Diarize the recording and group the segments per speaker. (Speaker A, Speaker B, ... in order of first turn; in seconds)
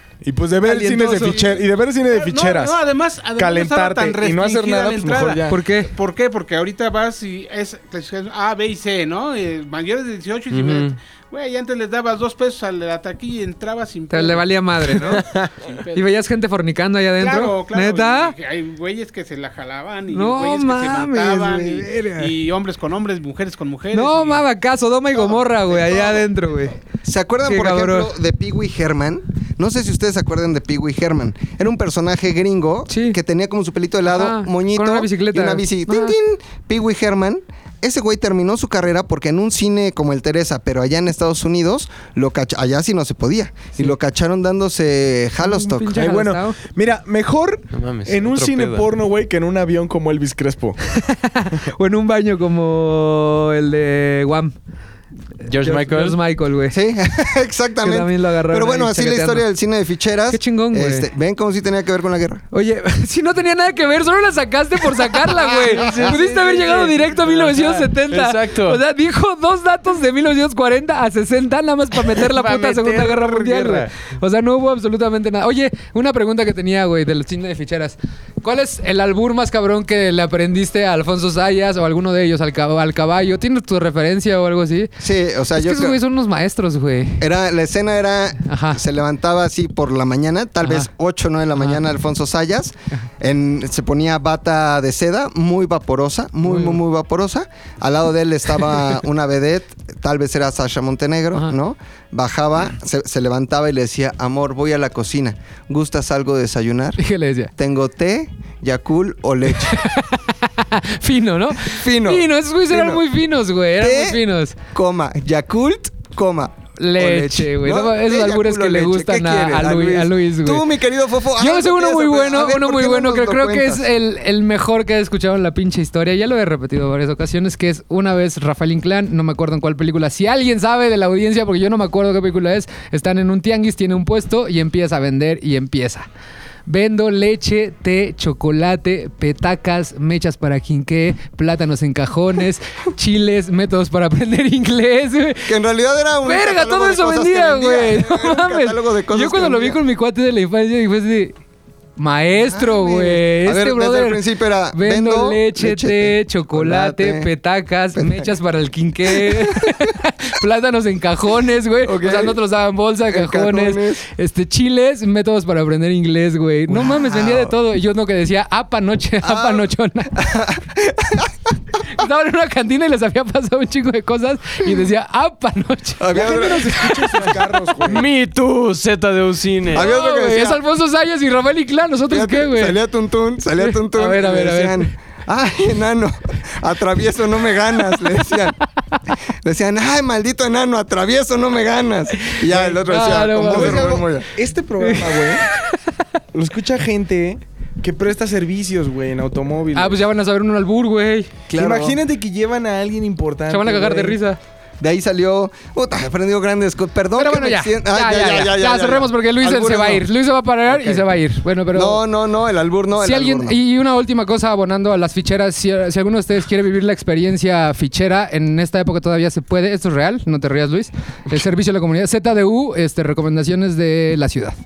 Speaker A: 0.2-2.8, 3.4-5.6, 45.9-50.8, 176.1-178.1, 192.5-195.4, 196.3-200.0, 201.5-204.2
Speaker B: 0.6-1.4, 5.5-5.9, 14.1-15.2, 15.9-18.4, 20.1-22.3, 23.9-26.8, 27.4-28.1, 32.9-33.2, 34.1-36.1, 45.4-46.6, 50.9-54.5, 55.4-56.8, 57.8-59.5, 60.3-61.1, 62.5-84.9, 85.6-87.3, 88.4-88.8, 90.6-90.9, 96.5-96.8, 107.0-107.5, 109.7-114.6, 116.8-120.7, 121.4-136.1, 136.7-145.5, 146.2-151.3, 152.0-154.2, 154.7-170.2, 171.8-177.4, 179.8-182.8, 183.6-184.9, 192.2-194.0, 194.8-195.9, 199.7-201.3, 203.5-204.4, 207.2-212.0, 213.0-224.6
Speaker C: 0.8-16.1, 17.2-24.5
Speaker D: 10.5-11.0, 47.7-48.9, 55.5-56.2, 65.3-68.8, 72.1-73.9, 177.9-179.9
Speaker E: 25.2-26.2, 27.0-46.0, 56.7-62.4, 85.0-86.0, 87.2-107.0, 107.6-109.8, 111.5-113.1, 113.8-123.9, 145.4-149.8, 152.3-157.3, 157.9-158.3, 159.1-159.9, 161.8-162.4, 163.1-164.0, 166.7-167.6, 169.2-171.3, 176.0-177.2, 179.7-180.6, 182.1-188.6, 189.4-194.3, 201.5-202.0, 204.8-210.1, 210.7-211.2, 211.7-213.6